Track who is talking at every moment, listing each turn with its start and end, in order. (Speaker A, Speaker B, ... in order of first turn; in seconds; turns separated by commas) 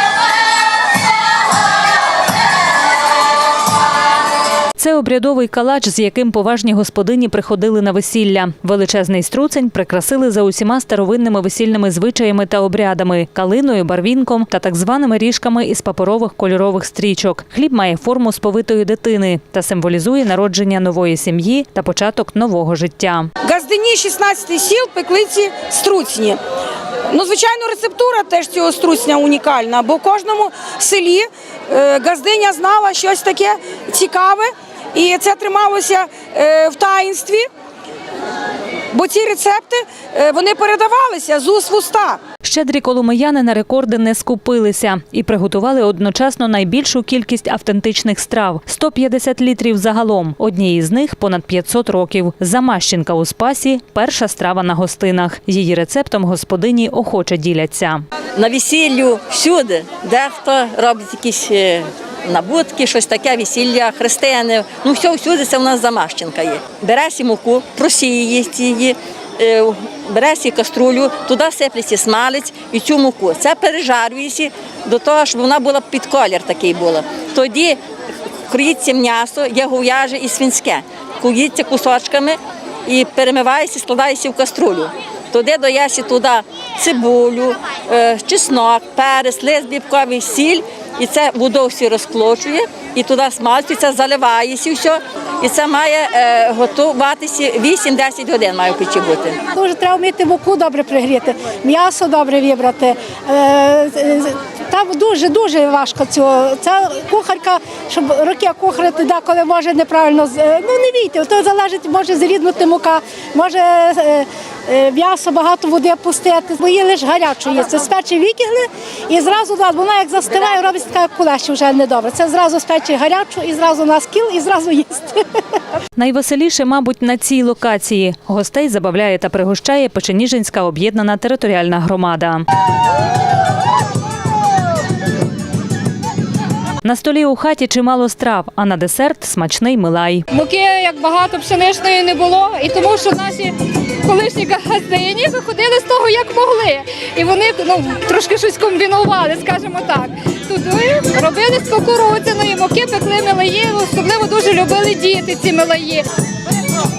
Speaker A: 4.8-23.3, Speaker B: 23.4-26.4, Speaker B: 27.1-37.5, Speaker B: 38.9-42.2, Speaker A: 42.4-58.0, Speaker C: 58.4-77.8, Speaker C: 78.5-99.4, Speaker D: 99.5-125.2, Speaker A: 126.0-132.4, Speaker A: 136.8-140.2, Speaker E: 140.3-156.0